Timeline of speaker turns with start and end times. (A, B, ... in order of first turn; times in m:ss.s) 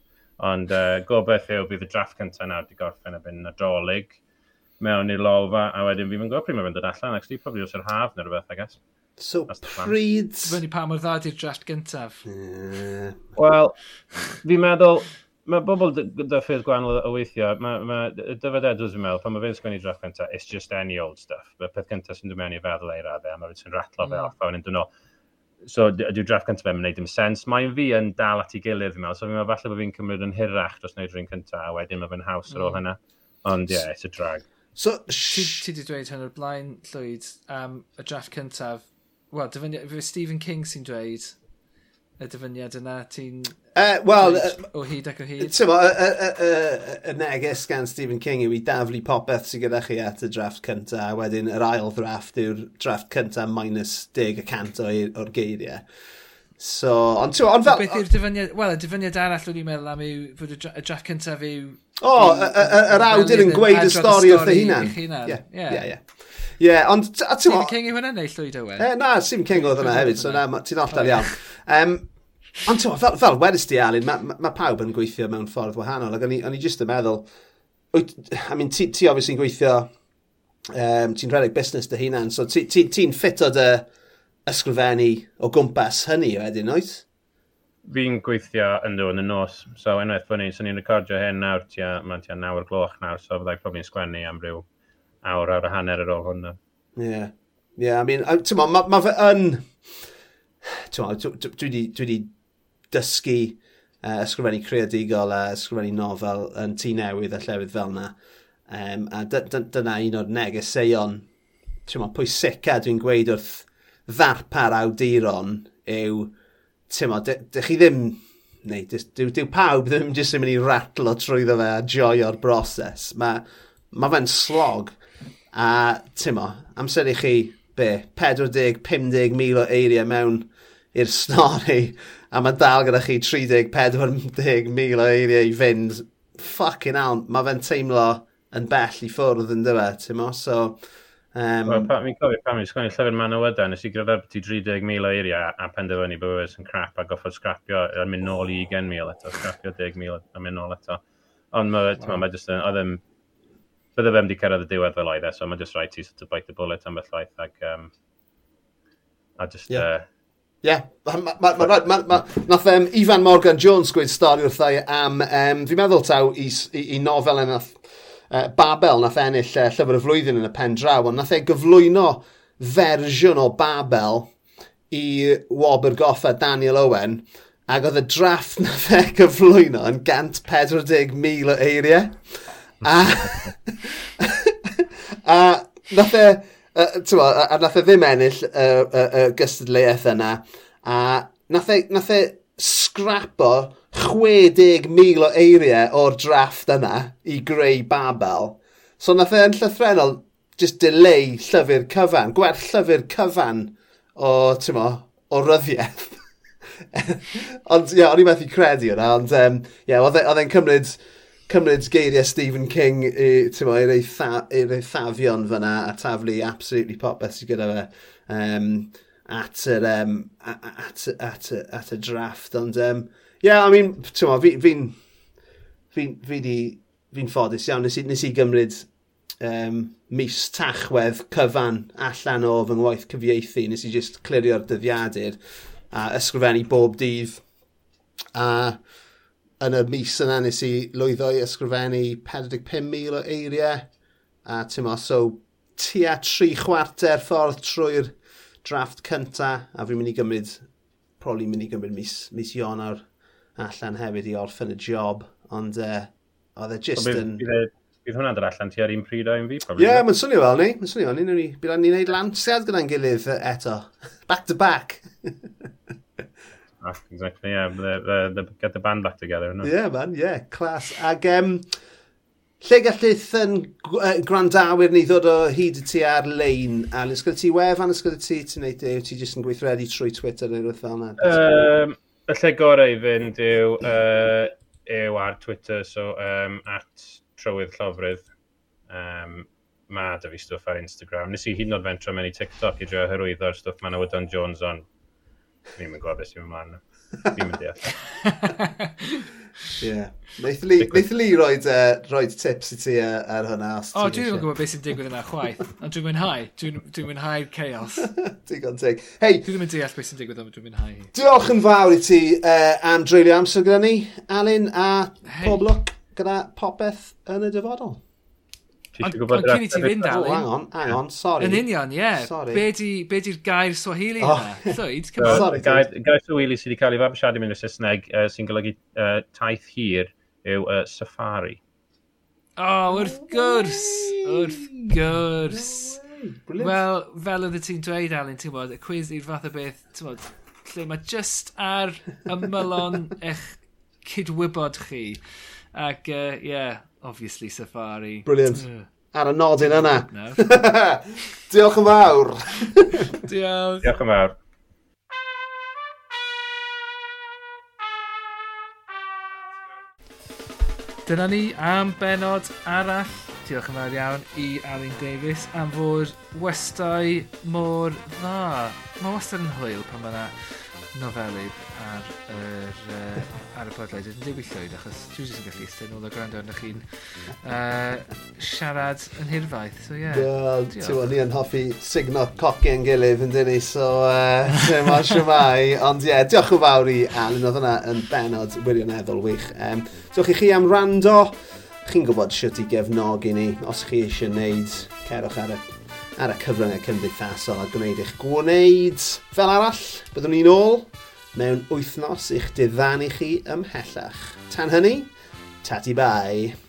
0:00.4-0:04.2 A
0:04.8-0:08.8 A
0:09.2-0:10.6 B
0:09.5-0:09.9 A
0:10.4-0:12.2 C
0:12.3-0:13.2 B
0:13.4-0:24.9 A
0:24.0-0:24.3 C
0:25.6-0:34.4 A
0:32.5-0:32.8 C
0:34.8-0:35.6 B
0:35.2-0:41.4 C
0:42.2-0:43.6 C
0:43.8-0:44.7 B
0:44.2-0:45.6 C
0:45.4-0:55.8 B
0:56.6-0:58.1 B
0:57.6-1:05.9 C
1:02.0-1:07.7 B
1:07.4-1:08.9 C
1:08.8-1:12.1 B
1:09.5-1:11.4 C
1:12.6-1:17.3 B
1:17.9-1:19.9 B
1:20.7-1:23.9 B
1:24.5-1:27.1 B
1:27.9-1:34.6 A
1:35.2-1:36.6 A
1:37.0-1:39.8 B
1:40.6-1:42.3 B
1:42.9-1:48.2 B
1:48.7-1:51.3 B
1:51.9-1:56.3 B
1:56.9-2:05.0 B
2:05.5-2:20.8 B
2:21.3-2:21.9 B
2:21.7-2:31.0 A
2:31.5-2:33.0 A
2:34.0-2:37.9 A
2:39.4-2:40.0 A
2:40.6-2:54.3 B
2:54.9-3:26.2 B
3:26.8-3:45.0 B
3:45.9-3:48.9 B
3:49.4-3:55.4 B
3:55.9-3:57.4 B
3:58.4-3:58.8 B
3:59.6-4:03.9 B
4:04.4-4:10.6 B
4:11.2-4:13.0 B
4:13.6-4:17.4 B
4:17.0-4:20.0 A
4:19.8-4:25.5 B
4:26.8-4:29.7 A
4:29.6-4:31.7 B
4:32.6-4:41.4 B
4:41.2-4:48.2 A
4:48.9-4:54.8 A
4:55.8-4:58.1 A
4:58.2-4:59.3 C
4:59.8-5:04.5 B
5:00.8-5:01.0 A
5:03.9-5:08.1 C
5:08.0-5:09.5 B
5:09.4-5:11.1 C
5:11.1-5:18.0 B
5:15.2-5:15.6 C
5:19.0-5:20.0 A
5:19.0-5:20.5 C
5:19.9-5:22.6 B
5:21.4-5:25.5 C
5:24.2-5:25.9 B
5:25.2-5:31.6 A
5:32.6-5:36.0 C
5:33.0-5:34.9 B
5:35.5-5:36.8 B
5:36.6-5:45.2 C
5:45.7-5:48.9 C
5:48.3-5:53.1 B
5:49.6-5:50.5 C
5:52.9-5:53.9 C
5:53.8-5:54.4 A
6:01.1-6:21.0 C
6:20.1-6:35.6 B
6:36.2-6:46.6 B